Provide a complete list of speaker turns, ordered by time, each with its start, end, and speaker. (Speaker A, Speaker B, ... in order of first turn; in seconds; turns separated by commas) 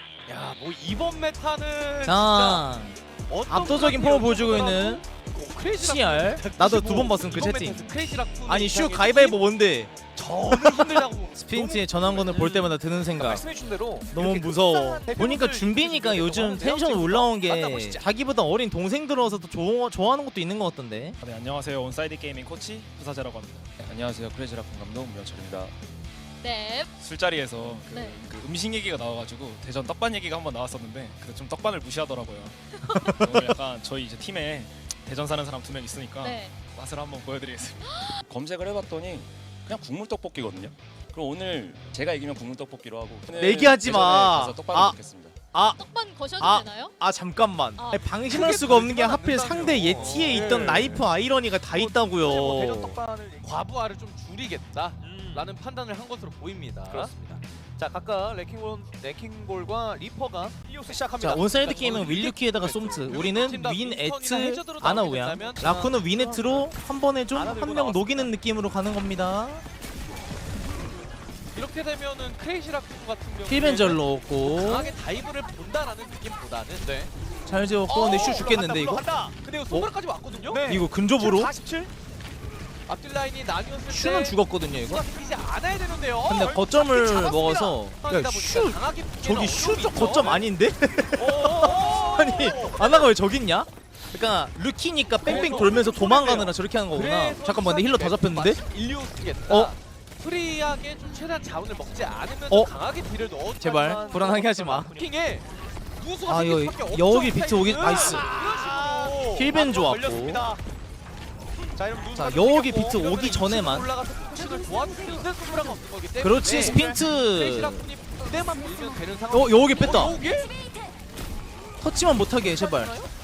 Speaker A: 0.3-2.6, Speaker B: 2.0-3.0, Speaker A: 3.3-9.4, Speaker B: 3.5-5.0, Speaker B: 5.8-7.8, Speaker B: 8.5-9.9, Speaker A: 10.1-11.4, Speaker B: 10.5-13.4, Speaker C: 11.5-11.8, Speaker A: 12.1-12.7, Speaker C: 13.2-18.0, Speaker B: 14.1-21.2, Speaker D: 21.2-23.7, Speaker E: 23.8-25.7, Speaker F: 26.4-26.9, Speaker D: 27.0-38.1, Speaker F: 27.9-28.2, Speaker F: 32.9-33.3, Speaker F: 36.2-36.6, Speaker E: 38.2-45.4, Speaker B: 43.4-45.0, Speaker B: 45.5-45.8, Speaker F: 45.7-46.9, Speaker B: 46.4-53.0, Speaker A: 48.3-50.9, Speaker C: 49.4-51.0, Speaker C: 51.7-53.5, Speaker A: 53.4-57.4, Speaker C: 55.0-55.5, Speaker C: 57.8-62.2, Speaker A: 61.2-65.6, Speaker B: 61.2-69.6, Speaker C: 65.6-66.7, Speaker C: 67.3-68.3, Speaker A: 71.5-77.1, Speaker B: 73.5-74.9, Speaker B: 77.5-79.0, Speaker A: 77.9-78.5, Speaker C: 77.9-79.3, Speaker A: 79.4-80.6, Speaker C: 80.5-81.9, Speaker B: 80.7-81.5, Speaker A: 82.9-84.4, Speaker B: 83.9-85.0, Speaker A: 84.9-86.6, Speaker B: 86.2-98.6, Speaker C: 86.3-87.8, Speaker A: 88.0-90.4, Speaker A: 91.2-93.0, Speaker C: 91.4-92.6, Speaker C: 95.2-96.4, Speaker A: 95.2-105.5, Speaker B: 99.5-99.7, Speaker B: 103.6-104.9, Speaker C: 103.6-105.1, Speaker A: 106.0-109.5, Speaker B: 106.2-108.3, Speaker C: 107.8-110.6, Speaker B: 109.3-110.5, Speaker C: 111.8-113.0, Speaker B: 112.1-113.9, Speaker A: 112.9-120.6, Speaker C: 114.3-115.2, Speaker B: 116.2-117.9, Speaker C: 116.4-117.0, Speaker B: 119.3-120.2, Speaker B: 121.8-122.9